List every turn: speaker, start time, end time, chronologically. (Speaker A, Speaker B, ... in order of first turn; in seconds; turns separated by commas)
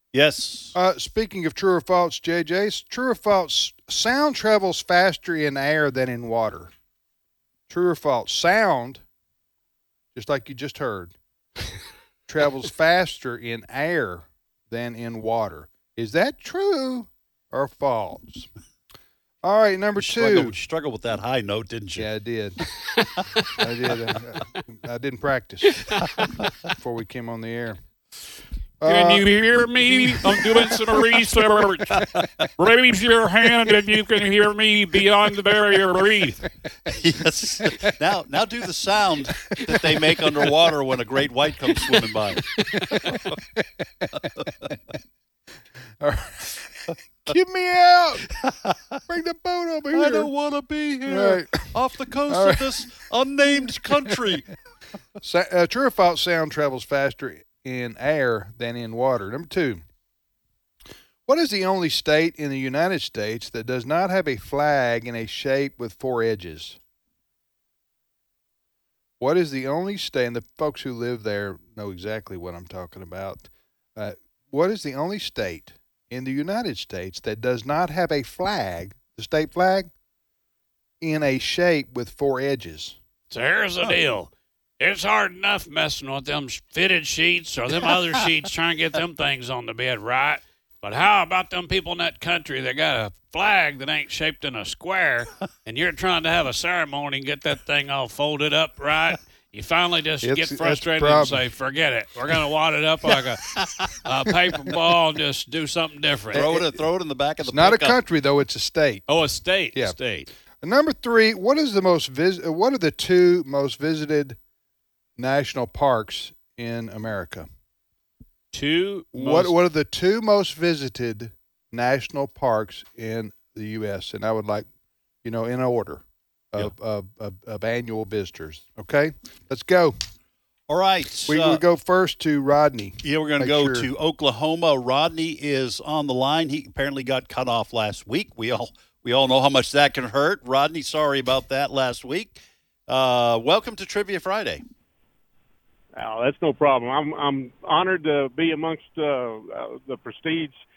Speaker A: 0.1-0.7, Speaker B: 0.7-6.7, Speaker B: 7.7-9.0, Speaker B: 10.1-11.1, Speaker B: 12.3-18.5, Speaker B: 19.4-20.6, Speaker A: 20.0-22.1, Speaker B: 21.9-22.6, Speaker B: 23.6-25.9, Speaker B: 26.7-27.8, Speaker B: 28.8-29.2, Speaker C: 28.8-36.4, Speaker A: 32.0-32.5, Speaker A: 36.9-42.5, Speaker B: 42.6-44.2, Speaker A: 44.4-44.7, Speaker B: 46.0-48.3, Speaker A: 48.4-48.9, Speaker B: 49.1-50.3, Speaker A: 49.9-54.5, Speaker B: 51.0-51.7, Speaker B: 52.3-52.8, Speaker B: 53.9-54.2, Speaker B: 55.2-59.8, Speaker B: 61.3-66.8, Speaker B: 69.2-79.9, Speaker B: 81.0-83.0, Speaker C: 83.3-106.4, Speaker B: 100.2-101.4, Speaker B: 106.3-106.7, Speaker A: 106.3-108.0, Speaker B: 107.4-109.0, Speaker C: 109.1-110.3, Speaker B: 110.6-114.4, Speaker B: 115.2-117.5, Speaker C: 118.5-119.5, Speaker B: 119.1-124.7, Speaker B: 125.2-129.9, Speaker A: 130.7-131.6, Speaker B: 131.3-133.9, Speaker A: 133.0-144.6, Speaker D: 145.9-150.6